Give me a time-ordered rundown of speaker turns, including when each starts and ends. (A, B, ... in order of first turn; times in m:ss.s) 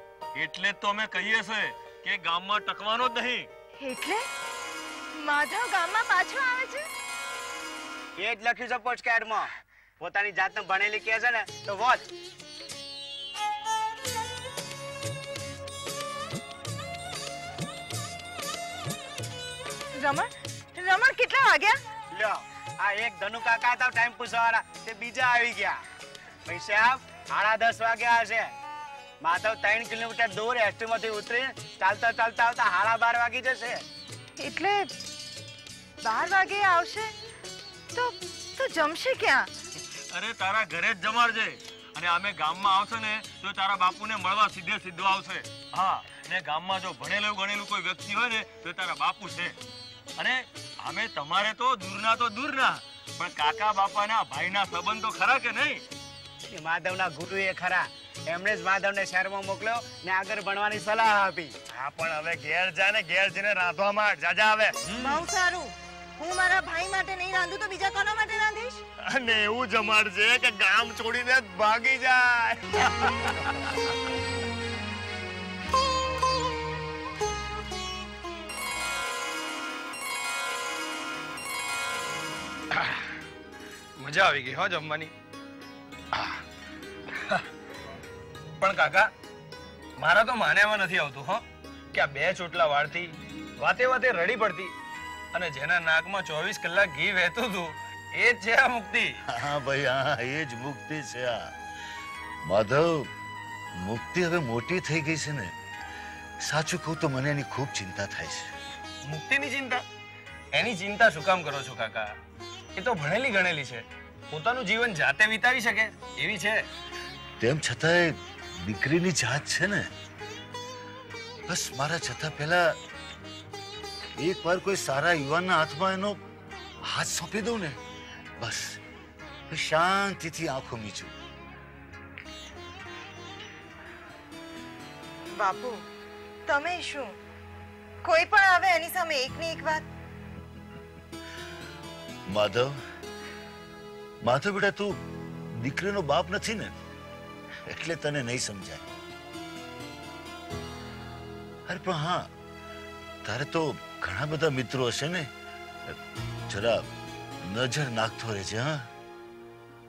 0:00.3-0:03.5 A
0:03.8-0:04.2 B
0:05.2-0:06.8 B
0:08.2-0:09.5 C
0:10.0-0:12.0 C
0:20.0-0:21.8 B
0:22.1-0:25.8 C
0:26.4-0:28.5 C
0:29.2-0:33.8 C
0:34.4-0:34.9 B
0:36.0-0:37.1 B
0:37.9-0:39.5 B
0:40.1-0:49.6 A
0:50.2-0:55.8 A
0:56.4-1:01.5 C
1:01.7-1:04.9 D
1:05.0-1:08.8 B
1:09.0-1:13.5 D
1:22.7-1:23.0 E
1:24.0-1:25.1 E
1:28.6-1:29.1 E
1:30.0-1:34.7 E
1:35.3-1:39.2 E
1:39.3-1:41.5 F
1:42.4-1:43.1 F
1:43.8-1:45.5 F
1:46.4-1:48.5 F
1:49.0-1:49.8 E
1:50.5-1:52.1 E
1:52.8-1:56.6 E
1:57.4-1:59.9 F
2:01.5-2:02.7 F
2:04.2-2:06.2 F
2:06.8-2:07.8 F
2:08.4-2:08.8 F
2:09.5-2:11.1 F
2:15.4-2:15.8 B
2:16.5-2:17.1 B
2:18.0-2:19.8 B
2:22.3-2:22.8 F
2:24.2-2:24.9 F
2:25.6-2:26.8 F
2:27.7-2:28.9 F
2:31.7-2:32.3 F
2:33.2-2:35.3 F
2:36.5-2:36.9 F
2:37.4-2:38.9 F